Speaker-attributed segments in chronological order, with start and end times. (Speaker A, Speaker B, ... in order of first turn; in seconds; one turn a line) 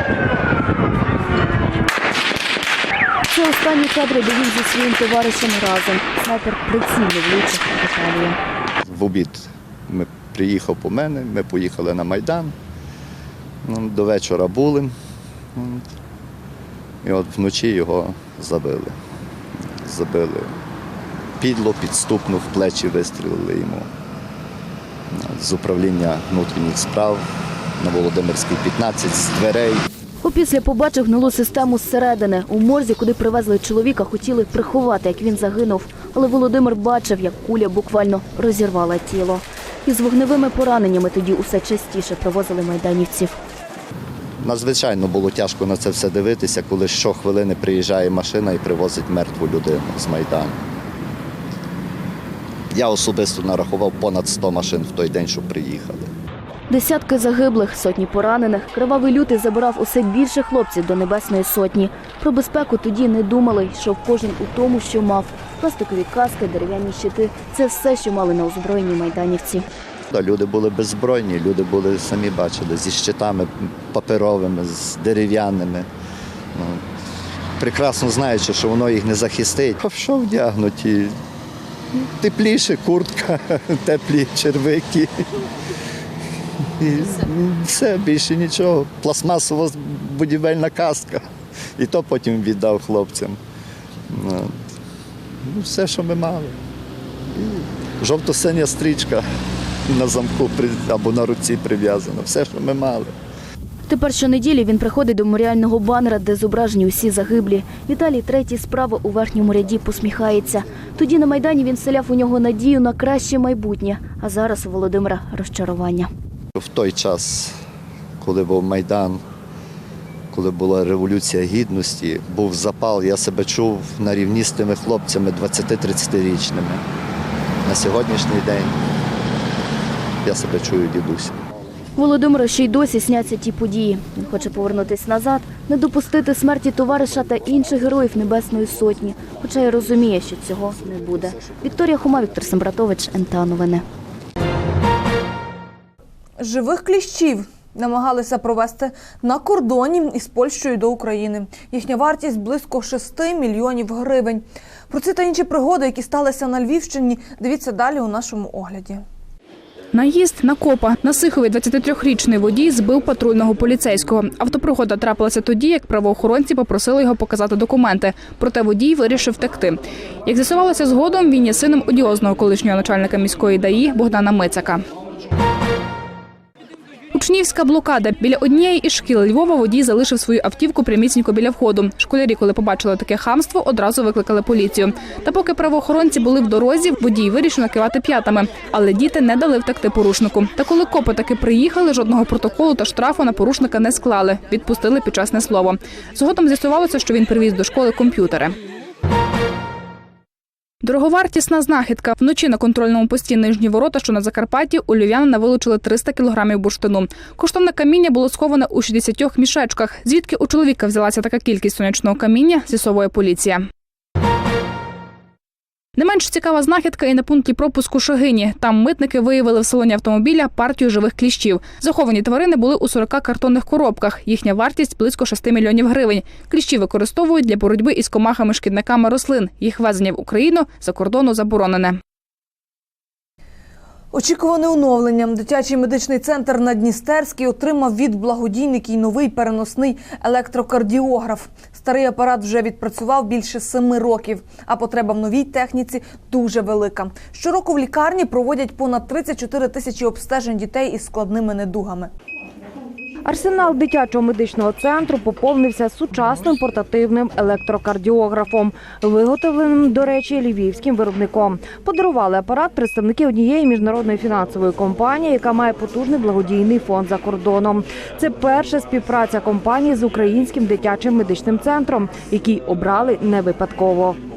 Speaker A: 3.3-8.4
Speaker B: 8.8-12.5
Speaker B: 13.6-14.9
Speaker B: 15.5-15.8
Speaker B: 17.0-18.9
Speaker B: 19.6-20.5
Speaker B: 21.4-23.9
Speaker B: 25.1-27.3
Speaker B: 27.8-29.8
Speaker A: 30.2-43.4
Speaker B: 44.4-50.6
Speaker B: 52.7-56.1
Speaker A: 56.7-69.6
Speaker B: 70.1-75.9
Speaker B: 76.5-76.8
Speaker B: 77.6-81.2
Speaker B: 82.1-85.1
Speaker B: 86.8-91.2
Speaker B: 91.8-93.4
Speaker B: 94.1-94.5
Speaker B: 95.4-96.6
Speaker B: 97.3-99.2
Speaker B: 99.9-103.1
Speaker A: 103.9-116.1
Speaker B: 116.5-117.5
Speaker B: 118.2-119.2
Speaker B: 120.3-126.8
Speaker B: 127.6-128.8
Speaker B: 130.2-131.3
Speaker A: 131.9-143.8
Speaker C: 146.4-159.0
Speaker D: 159.9-174.8
Speaker D: 177.1-198.5
Speaker D: 200.8-213.7
Speaker D: 216.0-232.0
Speaker C: 234.1-252.1
Speaker E: 253.3-274.1